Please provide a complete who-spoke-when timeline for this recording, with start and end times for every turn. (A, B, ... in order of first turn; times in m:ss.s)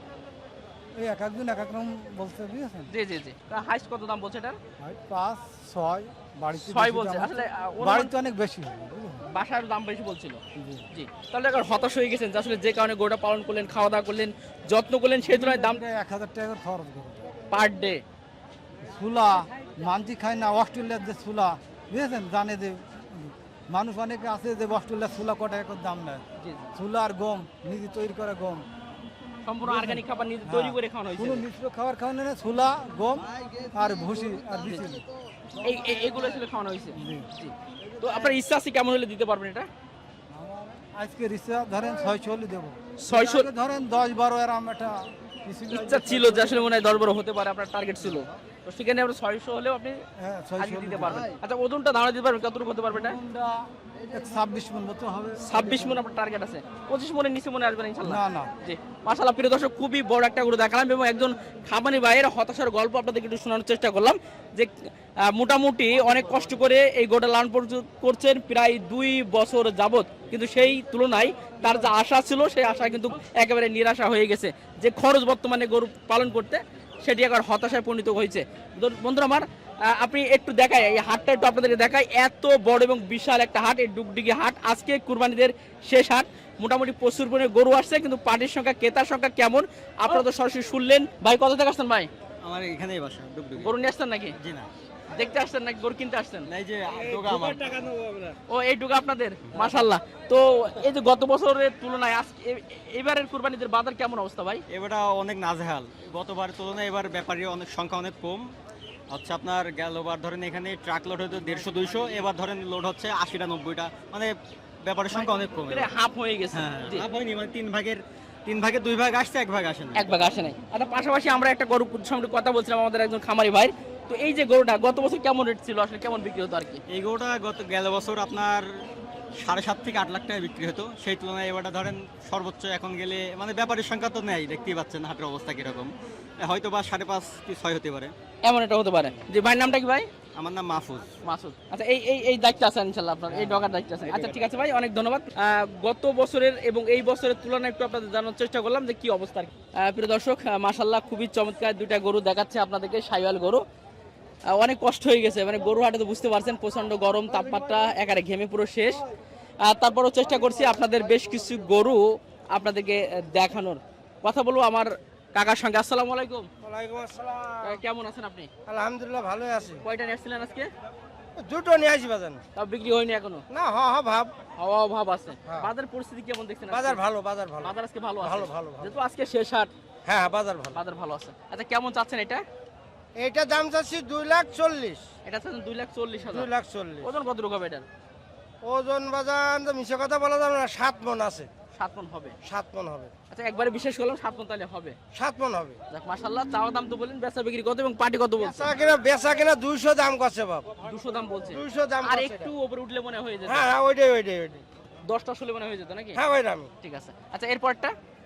0:01.0-0:02.9 A
0:02.9-0:04.6 B
0:04.8-0:09.2 A
0:06.6-0:08.1 B
0:09.3-0:10.4 B
0:10.6-0:10.8 A
0:10.9-0:15.8 B
0:15.2-0:17.2 A
0:17.5-0:18.0 B
0:18.9-0:26.2 A
0:26.4-0:26.6 B
0:26.7-0:28.6 A
0:29.4-0:31.4 B
0:29.6-0:35.0 A
0:35.6-0:39.7 B
0:36.9-0:37.2 A
0:40.3-0:44.9 A
0:43.0-0:43.5 B
0:45.4-0:46.6 A
0:45.7-0:50.0 B
0:50.2-0:51.2 A
0:50.6-0:53.2 B
0:52.9-0:53.5 A
0:54.1-0:56.0 A
0:55.4-1:32.1 B
0:58.0-0:58.5 A
1:32.4-1:33.8 C
1:33.6-1:34.4 B
1:34.4-1:34.7 C
1:35.1-1:36.5 B
1:36.4-1:37.9 C
1:38.5-1:44.6 B
1:44.7-1:48.5 C
1:49.1-1:55.9 C
1:55.1-1:57.0 B
1:56.5-2:00.2 C
1:59.9-2:06.8 B
2:06.9-2:08.7 C
2:09.3-2:18.1 C
2:18.4-2:20.1 B
2:20.3-2:21.1 C
2:21.2-2:33.6 B
2:24.1-2:24.4 C
2:34.6-2:39.0 B
2:39.6-2:46.5 B
2:46.6-2:47.7 D
2:47.6-2:48.5 B
2:48.7-2:49.8 D
2:49.8-2:50.7 B
2:51.4-2:52.4 D
2:52.6-2:53.4 B
2:53.5-2:54.3 D
2:54.6-2:57.0 B
2:56.7-2:59.0 D
2:57.6-2:59.7 B
3:00.0-3:00.8 D
3:00.7-3:02.4 B
3:03.2-3:05.0 D
3:05.2-3:06.5 B
3:06.3-3:07.1 D
3:07.0-3:07.8 B
3:08.6-3:11.5 D
3:11.7-3:12.4 B
3:12.4-3:13.1 D
3:13.3-3:15.0 B
3:15.1-3:15.8 D
3:15.9-3:18.7 B
3:18.4-3:20.7 D
3:20.8-3:23.7 B
3:21.6-3:22.5 D
3:23.5-3:24.6 D
3:25.1-3:26.2 B
3:26.2-3:26.7 D
3:26.8-3:27.9 B